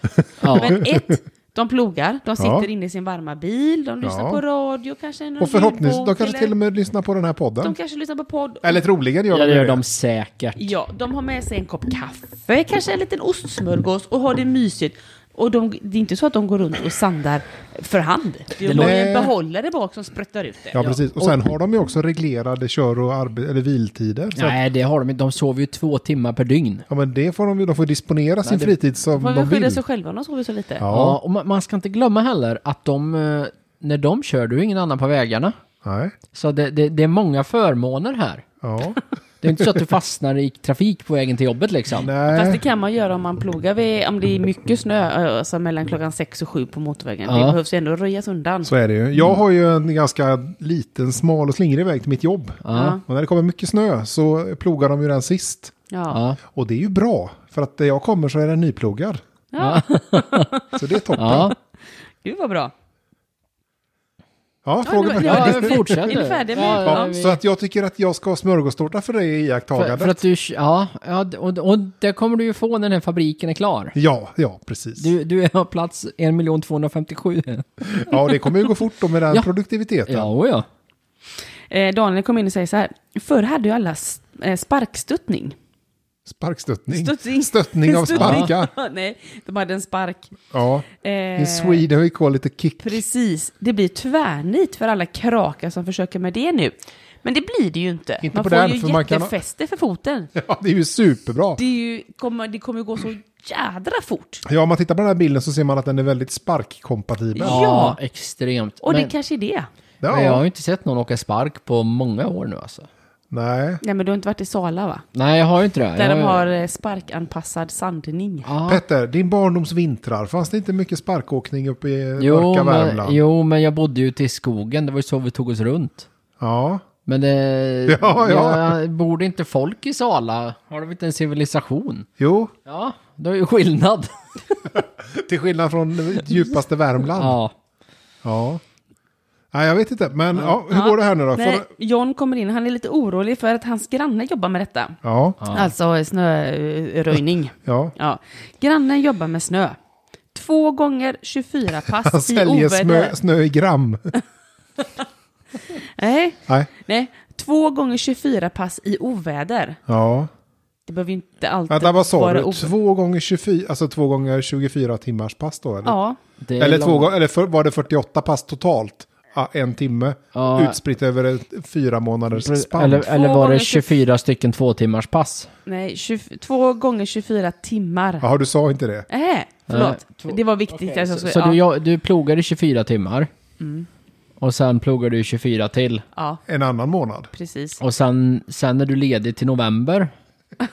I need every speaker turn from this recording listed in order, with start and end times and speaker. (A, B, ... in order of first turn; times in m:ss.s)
0:00.4-0:00.8 A
0:00.4-0:06.5 B
0:02.4-0:02.7 C
0:04.0-0:04.4 C
0:05.4-0:07.8 C
0:07.6-0:08.8 B
0:08.6-0:09.8 C
0:09.3-0:10.7 A
0:10.6-0:20.8 B
0:18.6-0:19.0 A
0:18.7-0:19.3 C
0:20.7-0:24.6 C
0:24.3-0:26.8 A
0:26.9-0:29.8 C
0:28.4-0:28.7 A
0:29.1-0:30.8 B
0:30.8-0:31.2 C
0:30.9-0:35.6 A
0:35.8-0:36.1 C
0:36.3-0:38.4 A
0:38.6-0:39.0 C
0:39.4-0:42.1 A
0:42.0-0:42.6 C
0:42.3-0:48.7 B
0:47.2-0:47.6 A
0:48.6-0:55.7 C
0:52.6-0:53.0 A
0:52.7-0:53.0 B
0:55.9-0:56.2 B
0:56.1-0:56.4 A
0:56.5-0:59.2 C
0:59.5-1:01.4 B
0:59.6-1:00.5 A
1:00.7-1:01.5 C
1:01.2-1:01.5 A
1:02.2-1:02.7 B
1:04.6-1:10.2 C
1:04.8-1:07.1 B
1:05.2-1:07.4 A
1:09.8-1:13.9 A
1:13.9-1:15.1 C
1:15.0-1:18.2 A
1:17.9-1:20.3 C
1:20.0-1:20.6 A
1:21.7-1:25.6 B
1:26.2-1:28.7 C
1:26.9-1:30.3 B
1:28.2-1:28.5 A
1:30.5-1:33.0 C
1:31.0-1:31.8 B
1:32.8-1:40.3 B
1:38.2-1:39.3 C
1:40.3-1:41.6 C
1:41.6-1:44.4 B
1:44.4-1:47.6 C
1:47.3-1:48.0 B
1:47.4-1:49.1 A
1:48.8-1:49.7 B
1:50.0-1:50.4 C
1:50.1-1:52.9 A
1:53.3-1:53.8 C
1:53.8-1:55.0 B
1:55.1-1:56.4 A
1:56.0-1:58.5 B
1:58.4-1:58.8 A
1:58.7-2:03.2 C
2:02.2-2:06.1 A
2:06.4-2:06.8 C
2:07.0-2:12.1 A
2:07.9-2:08.8 C
2:12.2-2:12.5 C
2:12.6-2:14.6 A
2:14.7-2:17.4 C
2:17.1-2:17.5 A
2:18.2-2:18.6 C
2:19.5-2:21.7 C
2:20.7-2:25.0 B
2:25.0-2:25.4 C
2:25.4-2:25.7 A
2:25.5-2:29.8 B
2:27.6-2:27.9 C
2:30.3-2:33.1 B
2:31.9-2:34.1 C
2:35.8-2:39.8 B
2:39.9-2:40.3 C
2:40.9-2:42.7 B
2:41.7-2:46.0 C
2:45.8-2:46.2 B
2:46.4-2:47.1 A
2:46.6-2:53.0 C
2:50.3-2:50.8 A
2:52.3-2:55.5 A
2:52.9-2:53.9 B
2:55.6-2:58.2 B
2:58.2-2:59.1 C
2:59.1-3:01.6 B
2:59.7-3:03.3 A
3:03.6-3:03.9 B
3:04.4-3:06.0 A
3:06.5-3:07.3 C
3:07.3-3:07.8 B
3:07.8-3:10.1 A